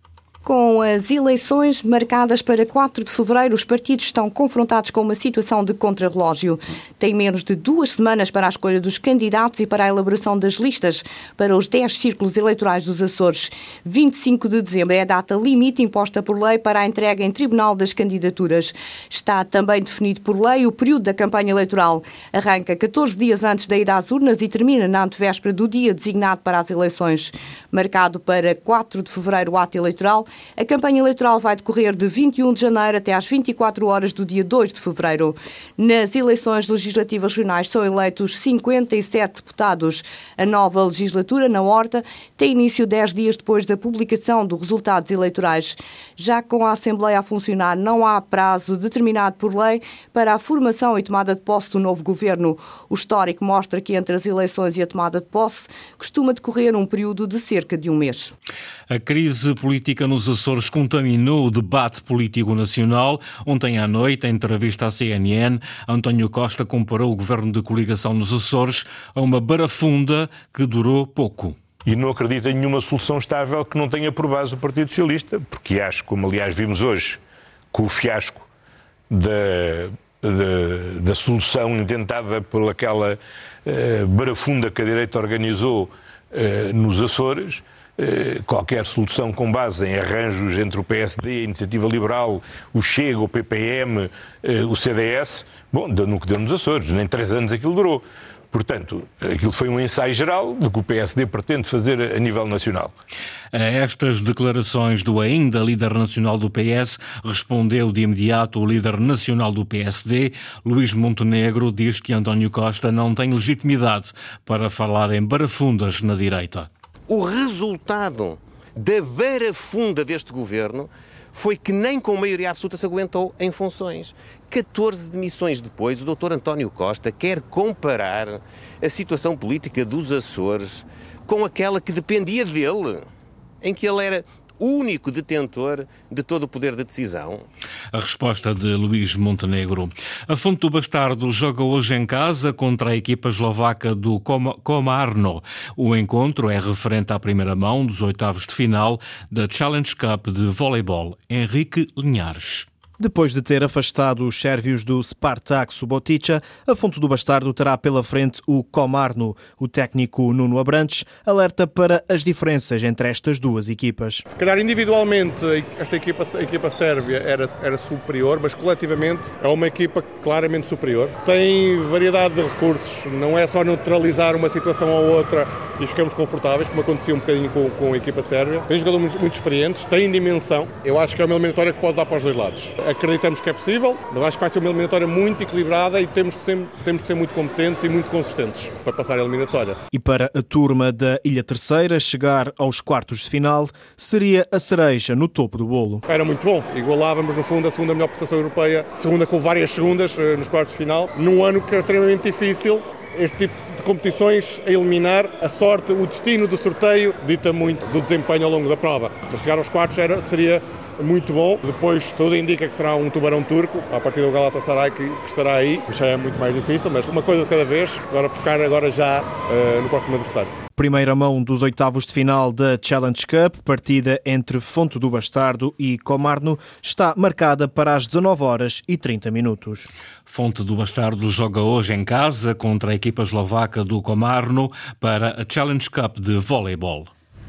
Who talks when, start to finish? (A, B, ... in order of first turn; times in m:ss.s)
0:00.4-0:58.3 A
0:58.9-1:11.6 B
1:11.8-1:17.2 C
1:17.7-1:18.5 C
1:19.1-1:43.0 C
1:43.5-1:56.7 B
1:57.1-2:13.1 D
2:13.6-2:17.4 D
2:17.9-2:32.7 B
2:33.0-2:44.2 E
2:44.3-3:09.8 F
3:09.9-3:16.0 E
3:16.1-3:40.5 F
3:40.8-3:49.9 E
3:50.3-3:57.1 B